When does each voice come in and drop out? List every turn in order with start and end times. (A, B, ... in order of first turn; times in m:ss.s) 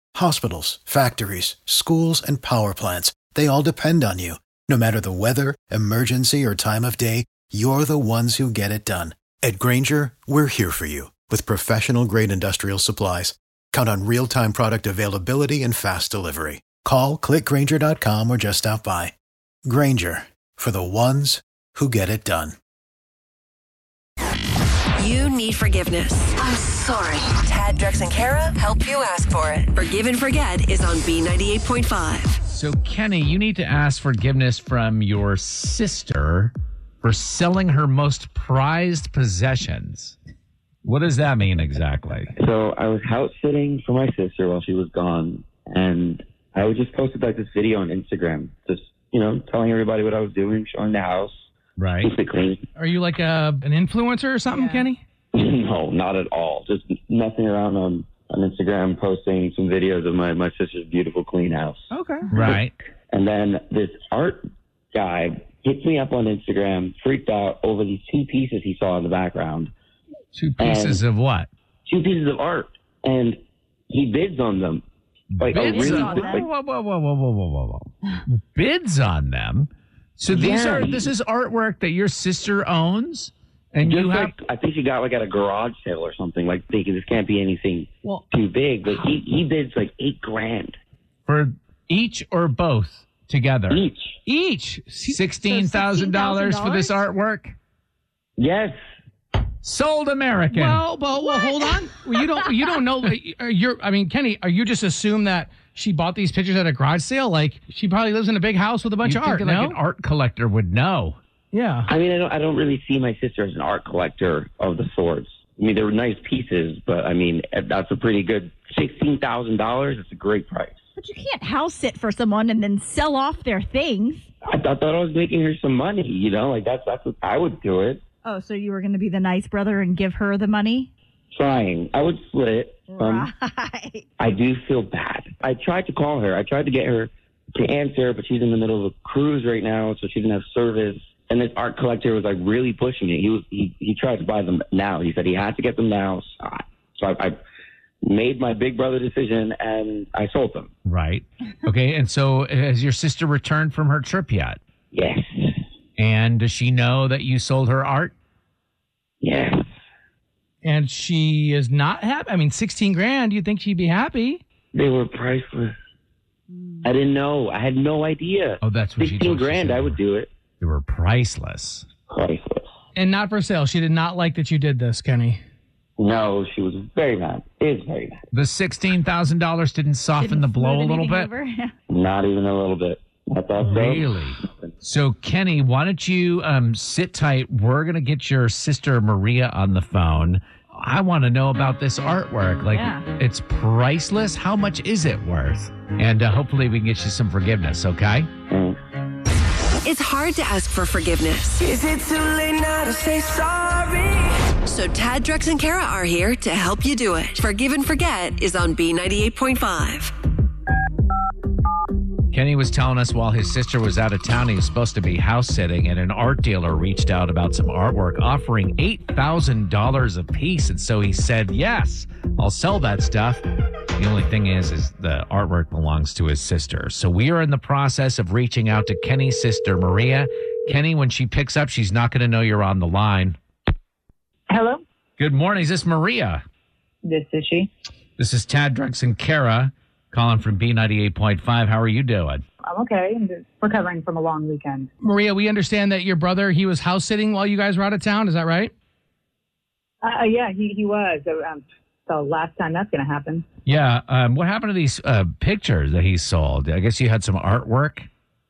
0:00.1-0:19.1 A
0:19.6-0:22.6 A
0:25.0-0:32.4 B
0:32.5-0:40.2 C
0:40.8-0:42.3 C
0:42.4-0:51.4 D
0:51.8-0:52.1 C
0:52.0-0:52.6 D
0:52.8-0:55.0 E
0:54.5-0:54.9 F
0:55.3-1:01.8 D
1:01.9-1:02.3 E
1:02.3-1:02.7 C
1:03.1-1:04.4 D
1:04.9-1:09.7 D
1:10.3-1:11.5 C
1:10.6-1:11.0 D
1:11.8-1:14.8 D
1:15.3-1:24.3 C
1:15.4-1:16.5 D
1:15.7-1:16.2 E
1:15.8-1:16.1 F
1:20.3-1:21.1 D
1:23.8-1:30.8 D
1:31.2-1:33.8 C
1:33.7-1:34.2 D
1:34.3-1:35.2 E
1:35.1-1:37.5 C
1:35.5-1:36.9 F
1:38.4-1:38.7 D
1:39.6-1:40.8 C
1:40.5-1:49.8 E
1:41.3-1:41.7 F
1:42.3-1:42.7 F
1:49.0-1:51.2 C
1:51.5-1:51.9 E
1:51.9-2:00.8 D
2:01.0-2:04.2 F
2:04.5-2:08.0 D
2:08.2-2:10.9 F
2:11.3-2:13.3 D
2:13.0-2:14.0 F
2:14.2-2:27.4 D
2:28.0-2:30.7 D
2:30.8-2:34.6 C
2:34.9-2:35.6 D
2:36.0-2:38.1 C
2:39.2-2:39.6 D
2:40.7-2:44.4 E
2:44.7-2:45.7 D
2:46.8-2:50.3 D
2:48.6-2:50.0 C
2:50.6-2:51.8 C
2:52.1-2:52.7 D
2:53.0-2:55.4 E
2:56.0-2:58.2 D
2:58.3-3:01.3 C
3:00.2-3:01.7 F
3:01.9-3:04.7 D
3:03.6-3:18.3 C
3:18.5-3:18.8 D
3:19.8-3:21.6 B
3:21.6-3:24.4 G
3:24.6-3:30.1 B
3:32.3-3:43.4 C
3:44.0-3:53.4 C
3:54.5-3:54.8 H
3:55.2-3:56.4 C
3:57.0-3:57.7 H
3:58.2-4:02.4 C
4:02.6-4:04.9 H
4:05.0-4:08.7 E
4:10.0-4:13.4 H
4:13.6-4:18.1 C